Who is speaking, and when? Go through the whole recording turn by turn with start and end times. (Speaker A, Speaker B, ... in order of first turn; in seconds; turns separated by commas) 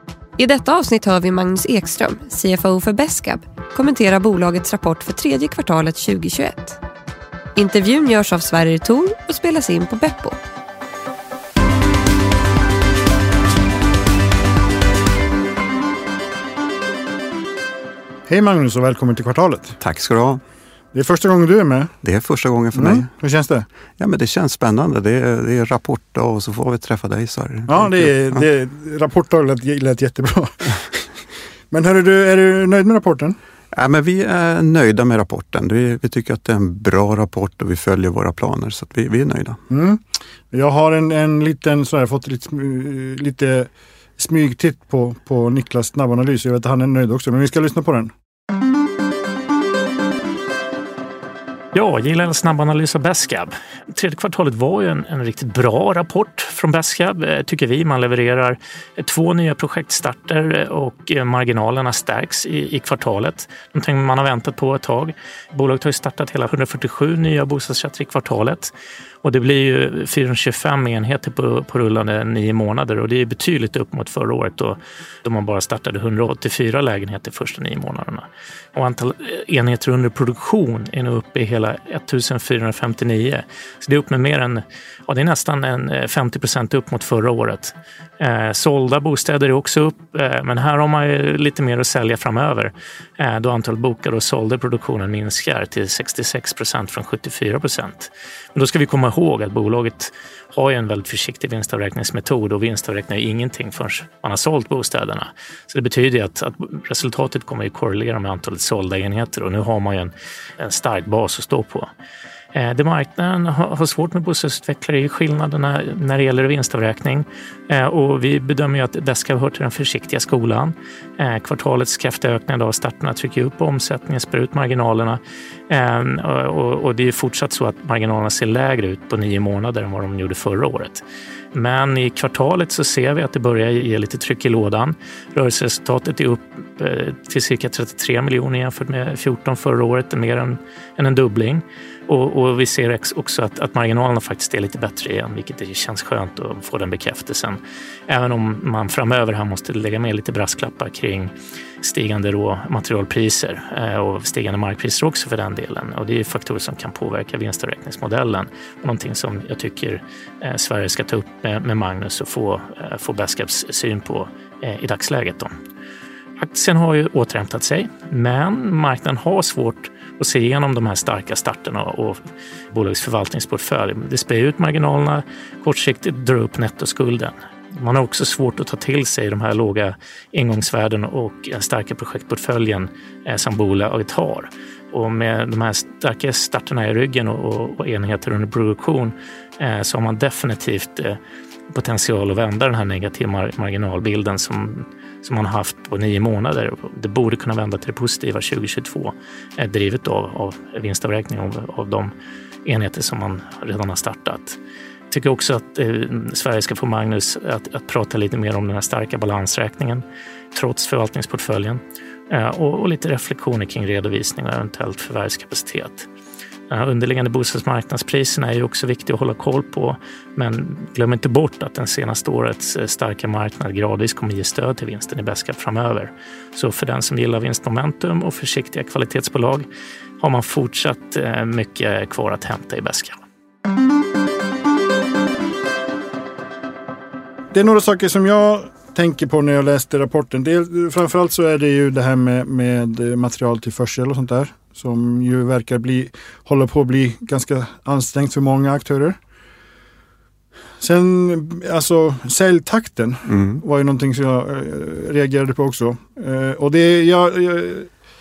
Speaker A: 0.4-6.8, Speaker A: 7.6-10.4, Speaker B: 18.3-19.8, Speaker C: 19.8-20.4, Speaker B: 20.9-21.9, Speaker C: 22.0-23.1, Speaker B: 22.7-23.7, Speaker C: 24.0-28.4, Speaker B: 27.7-31.2, Speaker B: 31.7-33.4, Speaker C: 33.7-39.6, Speaker B: 39.7-48.1, Speaker D: 51.7-68.7, Speaker D: 69.2-111.9, Speaker D: 112.5-131.0, Speaker D: 131.5-165.5, Speaker D: 166.4-191.2, Speaker D: 191.7-202.1, Speaker D: 202.7-204.6, Speaker D: 205.1-216.1, Speaker D: 216.7-229.7, Speaker D: 230.2-233.2, Speaker B: 237.5-249.2, Speaker B: 250.8-257.9, Speaker C: 253.3-253.6